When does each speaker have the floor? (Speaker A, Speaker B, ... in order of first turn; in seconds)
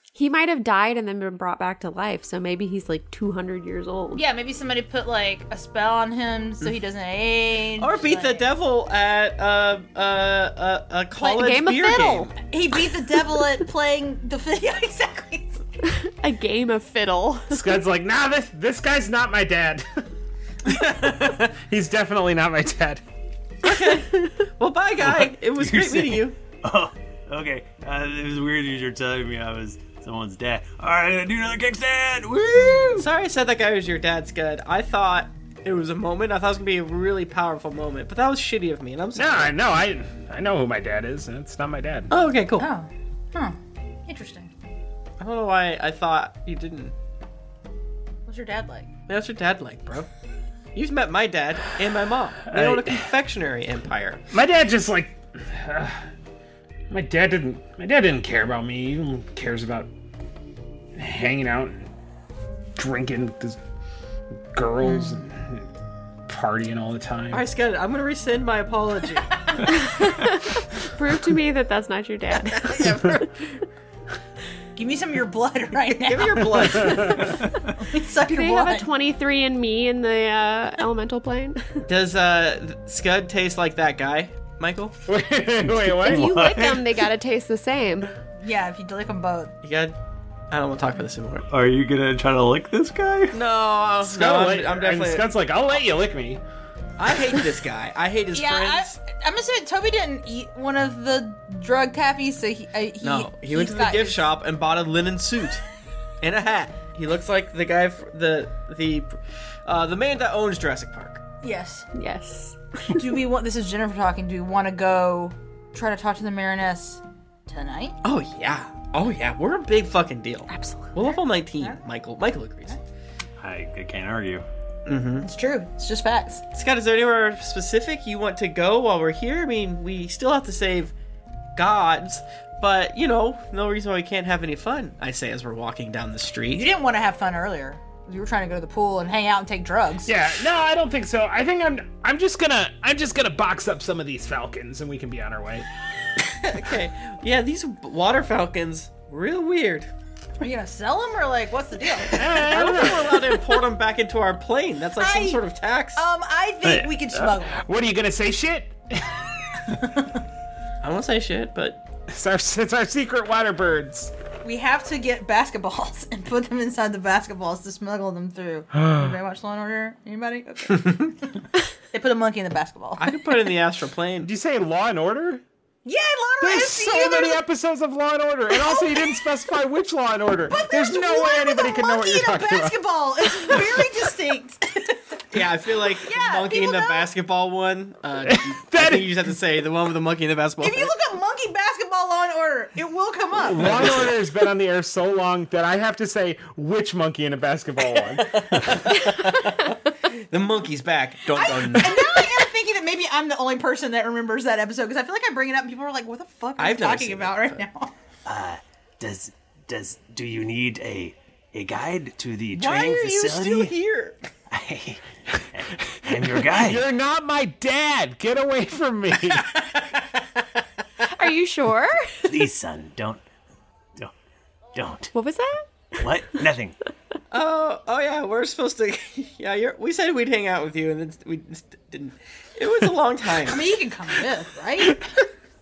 Speaker A: 0.1-4.2, 11.2-12.3, 15.9-17.8, 69.7-73.6, 78.2-81.7, 86.0-88.1, 111.9-113.1, 120.5-120.9, 221.0-222.3, 225.1-226.0
Speaker B: 4.2-8.5, 12.4-15.5, 42.6-44.5, 48.3-48.9, 64.8-65.2, 74.8-77.2, 77.8-78.9, 88.4-89.5, 98.3-104.3, 111.4-111.9, 112.9-118.0, 125.2-126.4, 136.5-140.1, 150.4-152.9, 155.0-155.4, 155.9-157.6, 159.8-160.1, 164.4-171.1, 171.9-173.1, 175.8-177.4, 178.5-179.2, 180.5-185.0, 186.1-187.1, 190.6-193.8, 201.4-207.9, 233.5-235.0
Speaker C: 7.8-12.3, 20.8-21.4, 23.6-26.4, 33.0-39.5, 42.1-42.7, 45.2-46.9, 49.1-50.1, 50.8-54.2, 67.3-69.3, 72.5-73.2, 76.0-77.4, 81.8-85.0, 89.6-90.0, 90.5-91.5, 93.3-95.5, 97.0-99.0, 103.0-105.6, 106.2-111.2, 118.0-122.8, 124.9-125.3, 126.5-130.9, 131.6-136.7, 146.3-149.9, 152.3-156.1, 160.8-161.8, 173.0-174.3, 185.3-190.9, 193.6-194.1, 198.3-202.2, 206.6-207.6, 212.5-214.2, 227.3-233.7
Speaker D: 17.5-19.9, 20.7-23.0, 39.2-42.1, 52.5-53.1, 54.3-56.0, 56.9-59.9, 61.0-61.9, 62.8-63.6, 64.5-65.6, 66.3-67.4, 76.5-77.3, 85.1-86.4, 94.0-96.4, 140.1-145.7, 152.2-153.3, 156.6-159.8, 162.1-164.1, 168.7-169.2, 174.2-175.4, 176.4-182.8, 188.2-189.2, 193.5-198.8, 216.3-219.6
Speaker E: 25.0-33.1, 85.7-87.0, 91.5-93.4, 123.4-124.5, 208.3-213.8, 214.5-216.8, 222.2-223.2, 224.8-225.1, 226.0-226.8